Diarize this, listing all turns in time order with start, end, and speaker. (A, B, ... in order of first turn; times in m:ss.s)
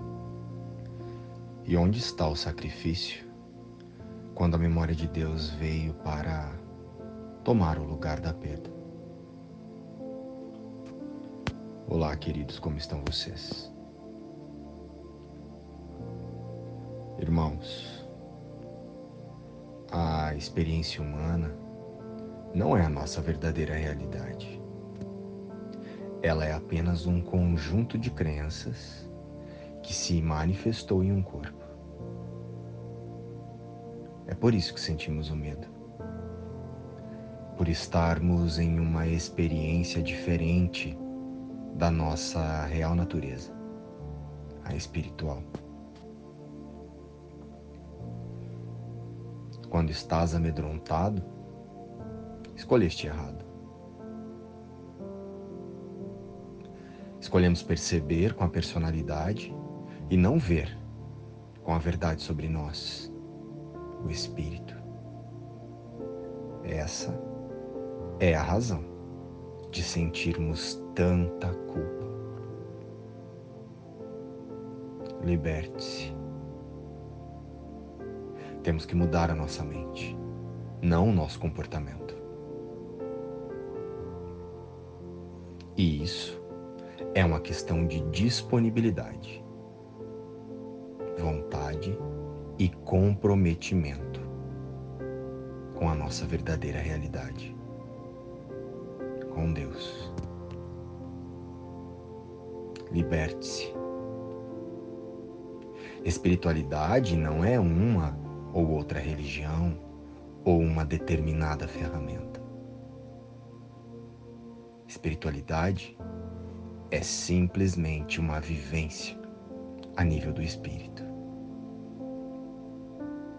0:01.6-0:03.3 A
0:04.3-0:06.6 A
0:07.4-0:08.7 A
0:11.8-0:13.7 A
0:17.2-0:18.1 A
0:19.9-0:21.6 A
0:22.5-0:24.6 A
0:26.2-0:29.1 A
0:29.8-0:31.7 A
0:34.2-0:35.7 A
0:37.5-0:41.0 A
0:41.7-0:43.5 A
0:44.6-0:45.5 A
0:49.7-0:51.3 A
0:52.5-0:53.5 A
0:57.2-1:00.8 A
1:01.6-1:03.1 A
1:04.0-1:04.8 A
1:06.6-1:07.2 A
1:08.2-1:08.9 A
1:09.7-1:12.2 A
1:15.2-1:16.2 A
1:18.6-1:20.2 A
1:20.8-1:22.2 A
1:25.8-1:26.4 A
1:27.1-1:29.4 A
1:31.1-1:32.0 A
1:32.6-1:34.3 A
1:35.7-1:37.6 A
1:39.3-1:40.1 A
1:42.9-1:43.8 A
1:46.0-1:49.8 A
1:50.4-1:52.4 A
1:54.9-1:56.0 A
1:56.9-1:59.2 A
2:00.0-2:01.1 A